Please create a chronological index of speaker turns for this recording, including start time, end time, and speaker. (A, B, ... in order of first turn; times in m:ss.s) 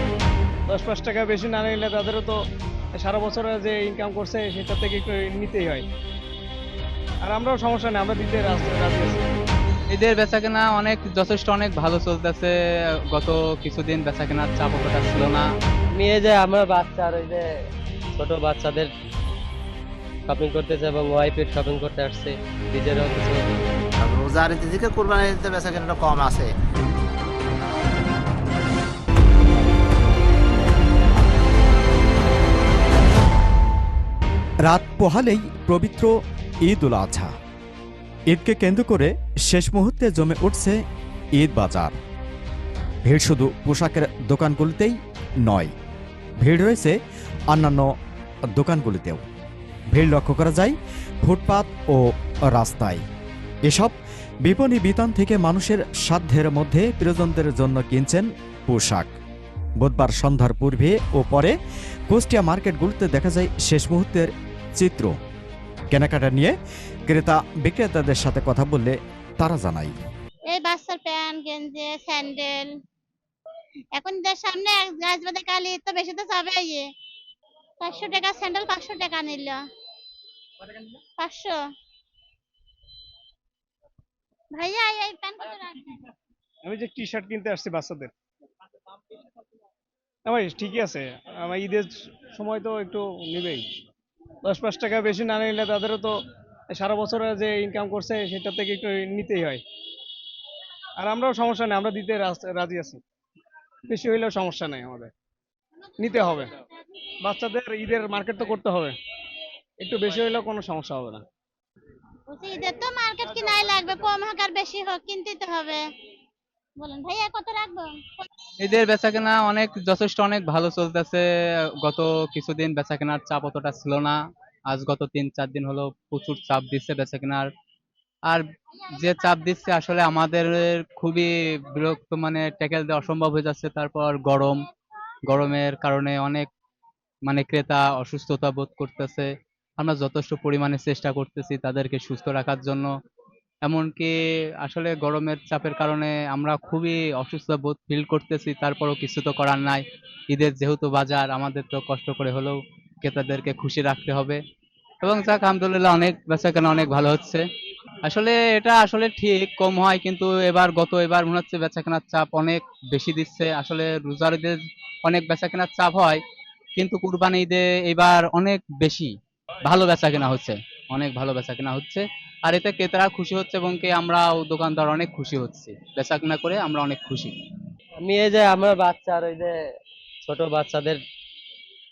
0:00.7-0:02.4 A
0:03.0-0:05.8 A
0:07.2-0:09.2 A
0:09.9-0:12.5 B
0:13.1-0:15.5 B
0:15.9-0:17.4 C
0:18.2-0:18.9 C
0:20.3-0:23.4 C
0:24.0-0:26.5 D
0:34.7-0:36.1 E
0:36.6-0:37.3 E
0:38.3-0:40.8 E
0:41.4-0:42.0 E
0:43.0-0:45.7 E
0:46.4-0:47.0 E
0:47.5-0:47.9 E
0:48.5-0:49.2 E
0:49.9-0:53.0 E
0:53.7-0:59.1 E
0:59.8-1:01.6 E
1:02.1-1:05.1 E
1:05.9-1:06.5 E
1:07.1-1:10.0 E
1:10.5-1:12.7 F
1:14.0-1:16.8 F
1:17.8-1:19.6 F
1:21.2-1:21.6 F
1:24.5-1:26.0 F
1:26.6-1:28.1 A
1:30.2-1:33.6 A
1:34.5-1:36.1 A
1:36.7-1:39.6 A
1:41.0-1:43.0 A
1:43.9-1:45.1 A
1:46.0-1:46.5 A
1:47.2-1:48.9 A
1:49.8-1:51.2 A
1:52.3-1:55.8 F
1:56.8-1:58.3 F
1:58.6-2:01.2 B
2:01.8-2:04.2 B
2:04.7-2:07.5 B
2:09.0-2:14.6 B
2:15.3-2:16.5 B
2:17.2-2:22.9 B
2:23.6-2:34.4 B
2:35.0-2:37.4 B
2:38.0-2:46.2 B
2:46.8-2:49.1 B
2:49.6-2:57.3 B
2:58.0-2:59.5 C
3:00.2-3:01.0 C